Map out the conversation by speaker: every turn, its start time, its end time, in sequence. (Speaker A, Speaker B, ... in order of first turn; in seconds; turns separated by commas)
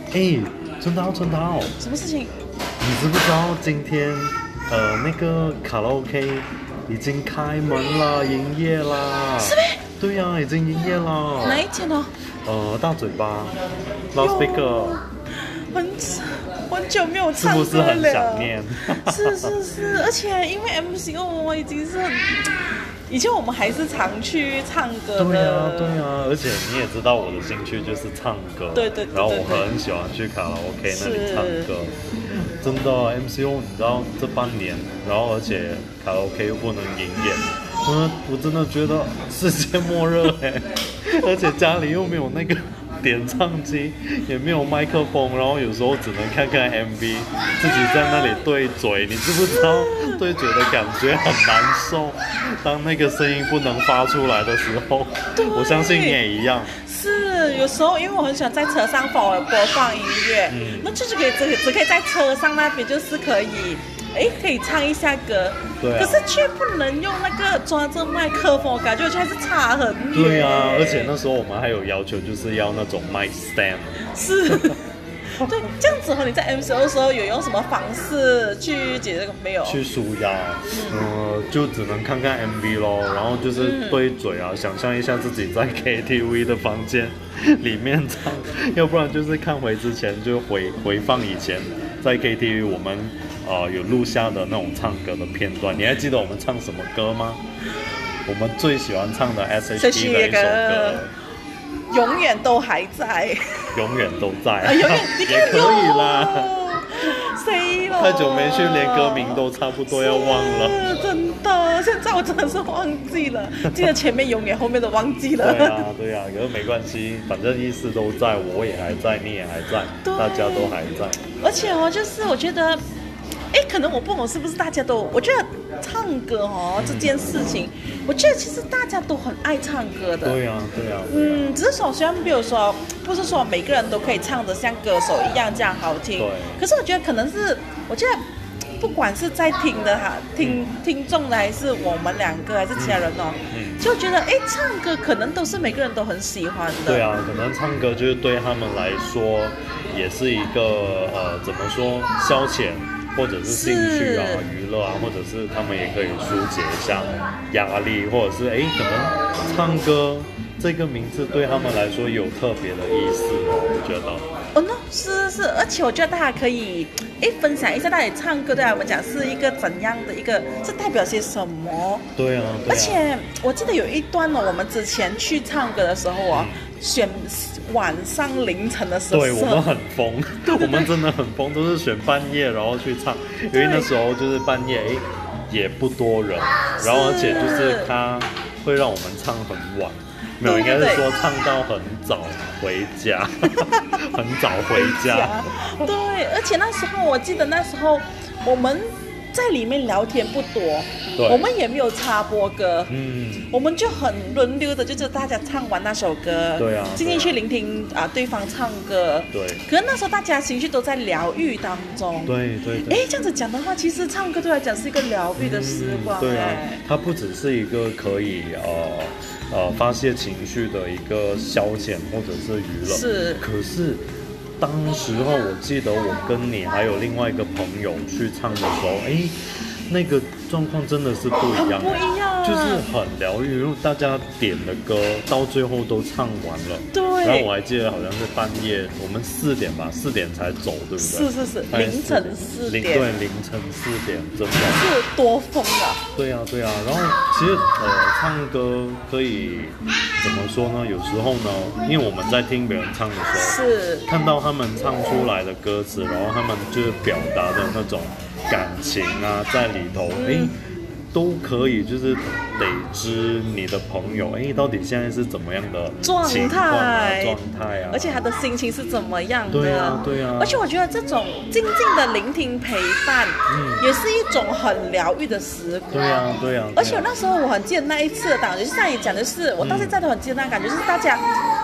Speaker A: 0.1-1.7, Speaker B: 1.8-2.3, Speaker A: 2.8-11.7, Speaker B: 9.4-9.8, Speaker B: 11.4-12.1, Speaker A: 12.4-13.5, Speaker A: 14.1-15.0, Speaker B: 14.2-15.0, Speaker B: 15.6-22.5, Speaker A: 17.3-19.5, Speaker B: 23.1-26.0, Speaker A: 25.1-56.7, Speaker B: 28.7-29.7, Speaker B: 30.9-31.7, Speaker B: 47.6-48.4, Speaker B: 49.5-50.2, Speaker B: 55.3-56.2, Speaker B: 56.7-71.1, Speaker A: 60.5-60.9, Speaker A: 65.8-66.2, Speaker A: 70.1-74.7, Speaker B: 74.1-74.8, Speaker B: 75.4-79.8, Speaker A: 79.6-97.4, Speaker B: 80.7-81.0, Speaker B: 83.5-84.0, Speaker A: 98.2-101.1, Speaker B: 99.8-101.0, Speaker B: 101.9-103.7, Speaker A: 103.7-106.5, Speaker B: 104.6-115.8, Speaker A: 107.9-110.8, Speaker A: 115.4-121.2, Speaker B: 120.0-120.8, Speaker B: 121.4-122.8, Speaker B: 123.5-130.4, Speaker A: 126.8-127.2, Speaker A: 127.8-128.1, Speaker A: 130.2-131.5, Speaker B: 131.1-138.2, Speaker A: 136.2-136.6, Speaker B: 138.8-147.1, Speaker A: 142.8-143.9, Speaker A: 146.9-164.2, Speaker B: 153.4-154.4, Speaker B: 164.5-172.1, Speaker A: 172.2-173.0, Speaker B: 172.7-179.7, Speaker A: 176.3-176.6, Speaker A: 179.1-195.9, Speaker B: 180.4-180.9, Speaker B: 183.5-183.9, Speaker B: 186.8-187.9, Speaker B: 190.4-191.1, Speaker B: 193.5-193.9, Speaker B: 194.7-202.9, Speaker A: 201.2-201.4, Speaker A: 202.9-203.5, Speaker B: 203.4-216.8, Speaker A: 206.6-207.4, Speaker A: 209.3-209.6, Speaker A: 212.2-213.0, Speaker A: 215.3-224.0, Speaker B: 222.8-223.4, Speaker A: 224.6-229.4, Speaker A: 229.9-244.8, Speaker B: 231.5-232.9, Speaker B: 236.9-237.5, Speaker B: 241.0-243.1, Speaker B: 244.7-246.0, Speaker A: 246.2-260.5, Speaker B: 253.3-254.1, Speaker B: 260.1-260.5, Speaker A: 261.1-268.2, Speaker B: 266.0-267.4, Speaker B: 267.9-276.0, Speaker A: 269.5-270.6, Speaker A: 273.5-273.9, Speaker A: 275.9-277.1, Speaker B: 276.8-281.2, Speaker A: 279.6-280.0